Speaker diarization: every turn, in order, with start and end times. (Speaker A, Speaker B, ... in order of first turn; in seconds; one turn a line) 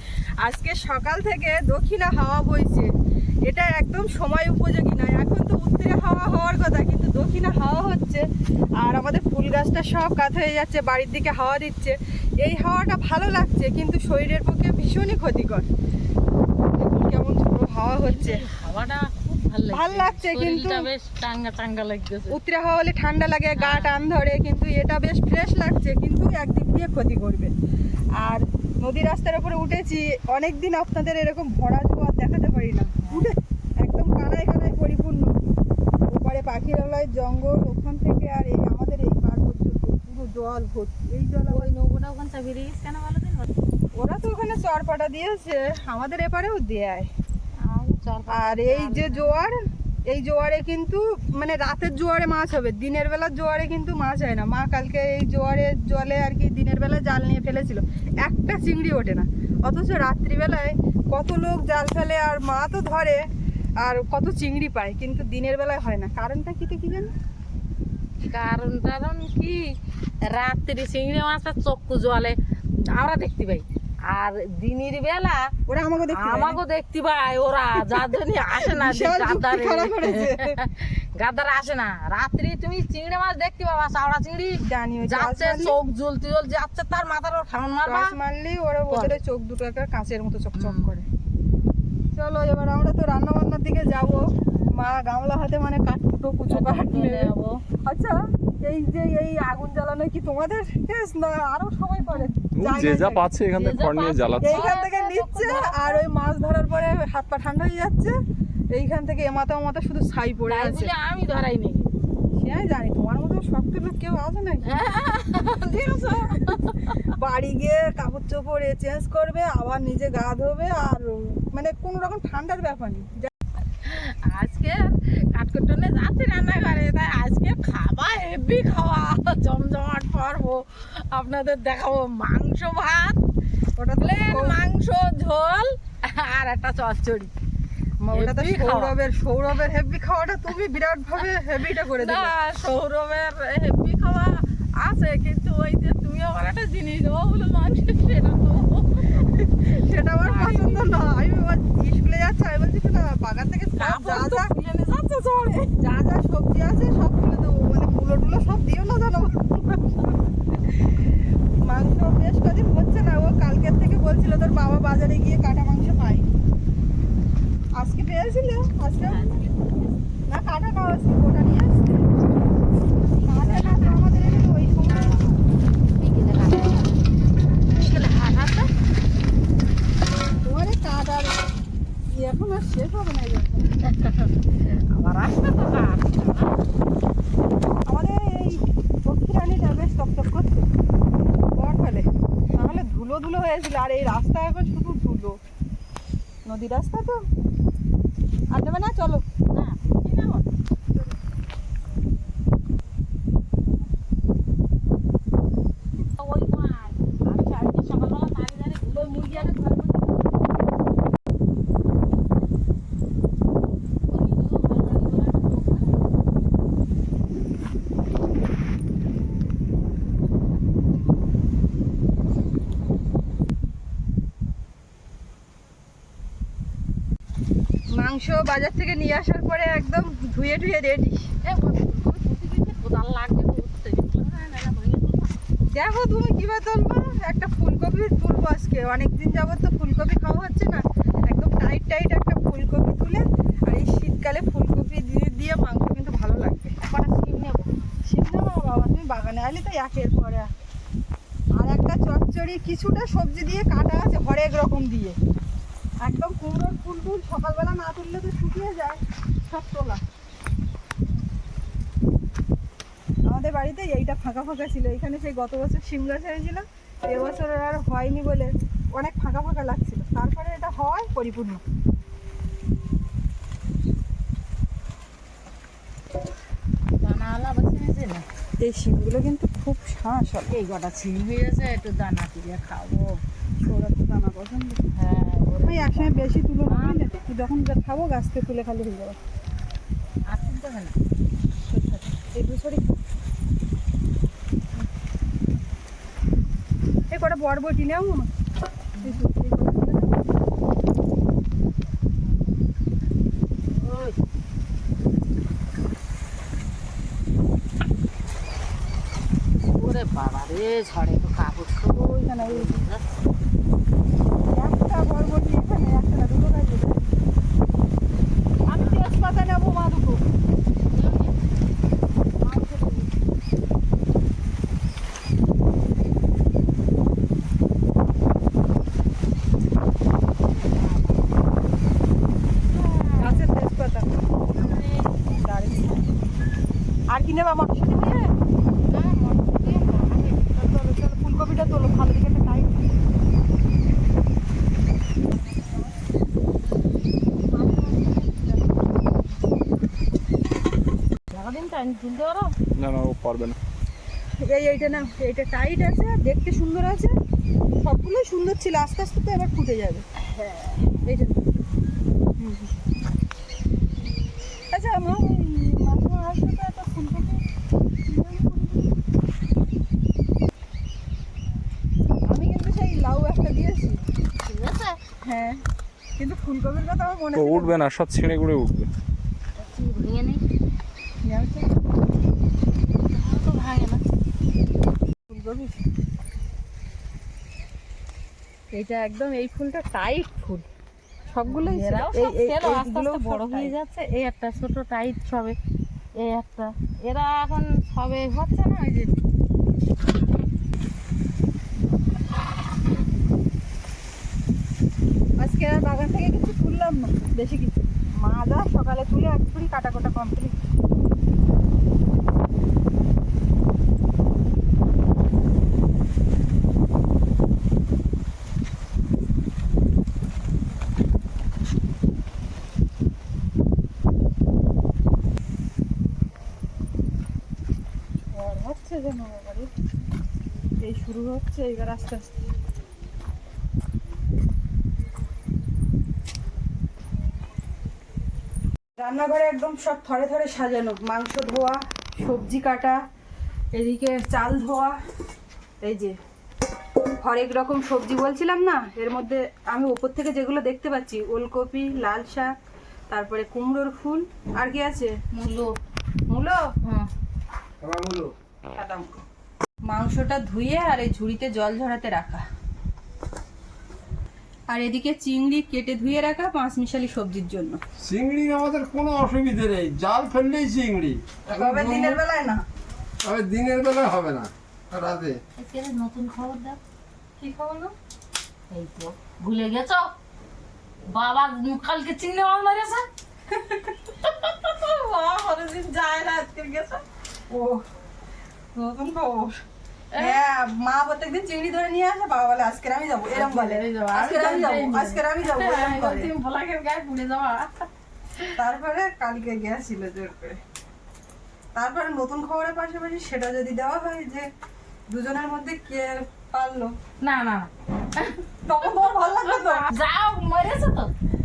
Speaker A: 0.4-2.9
Speaker A: 3.5-8.3
Speaker A: 8.8-15.7
Speaker A: 16.7-18.4
Speaker B: 18.0-22.4
Speaker A: 19.7-20.9
Speaker A: 22.3-27.5
Speaker B: 23.6-23.9
Speaker A: 28.2-35.4
Speaker B: 33.0-33.3
Speaker A: 36.1-41.7
Speaker B: 41.5-43.5
Speaker A: 44.0-47.1
Speaker B: 47.6-49.5
Speaker A: 48.3-63.2
Speaker A: 63.8-67.1
Speaker B: 68.3-75.5
Speaker A: 75.7-76.6
Speaker B: 76.1-88.2
Speaker A: 77.8-80.6
Speaker A: 84.6-85.8
Speaker A: 87.8-91.1
Speaker B: 88.9-89.2
Speaker B: 90.6-90.9
Speaker A: 92.2-97.3
Speaker B: 96.5-97.6
Speaker A: 97.8-103.3
Speaker B: 102.1-102.3
Speaker C: 102.6-104.7
Speaker B: 103.5-106.1
Speaker A: 104.4-108.2
Speaker A: 108.7-110.9
Speaker B: 110.5-112.0
Speaker A: 112.3-114.7
Speaker B: 114.7-117.0
Speaker A: 115.9-123.3
Speaker B: 123.8-133.2
Speaker A: 133.8-134.6
Speaker B: 134.0-137.3
Speaker A: 138.0-142.3
Speaker B: 138.1-138.9
Speaker B: 141.8-151.1
Speaker A: 149.7-154.5
Speaker B: 153.8-155.7
Speaker A: 155.7-160.9
Speaker A: 161.6-166.3
Speaker A: 167.8-169.4
Speaker B: 169.0-170.0
Speaker A: 170.3-172.1
Speaker B: 173.0-175.3
Speaker A: 173.2-175.2
Speaker B: 175.9-177.0
Speaker B: 177.7-178.7
Speaker A: 180.4-181.4
Speaker A: 182.1-183.7
Speaker B: 183.8-186.6
Speaker A: 187.9-190.7
Speaker A: 191.6-195.4
Speaker A: 196.4-197.2
Speaker A: 198.5-199.2
Speaker B: 199.5-200.5
Speaker B: 206.2-209.6
Speaker A: 208.9-210.2
Speaker B: 214.1-216.0
Speaker A: 227.9-231.3
Speaker B: 231.4-235.4
Speaker A: 235.7-246.8
Speaker B: 246.9-247.9
Speaker A: 248.1-250.5
Speaker A: 251.6-255.2
Speaker A: 256.0-260.0
Speaker A: 263.3-271.6
Speaker B: 277.0-278.3
Speaker A: 278.6-280.5
Speaker B: 280.5-283.2
Speaker A: 283.6-284.9
Speaker B: 284.9-287.0
Speaker A: 285.6-289.2
Speaker B: 290.3-290.9
Speaker B: 291.8-292.0
Speaker A: 292.3-292.9
Speaker A: 297.1-298.3
Speaker B: 299.0-299.2
Speaker A: 299.0-300.2
Speaker B: 303.8-304.2
Speaker B: 309.6-313.1
Speaker A: 311.9-312.8
Speaker A: 314.5-317.0
Speaker A: 318.6-320.2
Speaker B: 318.7-319.1
Speaker B: 320.9-321.4
Speaker A: 322.4-323.1
Speaker B: 330.5-331.3
Speaker B: 332.7-333.5
Speaker A: 333.2-334.1
Speaker B: 334.6-335.1
Speaker A: 335.2-336.1
Speaker A: 337.1-338.3
Speaker B: 338.9-340.5
Speaker A: 340.5-342.9
Speaker A: 345.4-346.0
Speaker A: 347.5-349.0
Speaker B: 351.3-352.5
Speaker C: 352.8-353.6
Speaker A: 354.4-357.2
Speaker A: 357.8-361.6
Speaker A: 362.4-362.7
Speaker A: 364.7-367.4
Speaker A: 368.1-369.0
Speaker A: 372.3-374.0
Speaker B: 374.4-375.0
Speaker A: 375.2-375.6
Speaker A: 376.2-377.7
Speaker C: 377.3-378.9
Speaker B: 379.6-380.4
Speaker A: 381.2-381.8
Speaker B: 383.1-384.0
Speaker A: 385.3-385.8
Speaker B: 388.7-390.6
Speaker A: 391.3-393.7
Speaker B: 391.5-395.6
Speaker B: 396.2-399.2
Speaker A: 405.4-410.6
Speaker A: 428.3-429.7
Speaker A: 430.8-432.2
Speaker A: 439.0-443.0
Speaker A: 443.7-445.0
Speaker A: 445.8-446.2
Speaker A: 447.2-452.6
Speaker A: 453.1-455.1
Speaker B: 455.3-455.8
Speaker A: 456.3-456.7
Speaker B: 456.8-457.1
Speaker D: 457.8-458.3
Speaker A: 458.7-459.2
Speaker A: 459.9-462.4
Speaker A: 464.7-467.8
Speaker D: 468.0-472.2
Speaker A: 471.5-472.6
Speaker D: 473.2-475.4
Speaker B: 475.6-476.8
Speaker A: 477.4-477.9
Speaker B: 478.7-480.1
Speaker B: 481.1-483.1
Speaker A: 483.5-483.9
Speaker B: 484.2-487.0
Speaker A: 487.5-487.8
Speaker A: 488.7-489.6
Speaker B: 490.1-490.4
Speaker A: 490.2-496.3
Speaker B: 493.3-498.6
Speaker A: 498.6-500.6
Speaker A: 501.8-504.5
Speaker A: 505.1-507.0
Speaker B: 507.2-508.4
Speaker A: 508.6-509.9
Speaker B: 509.4-511.1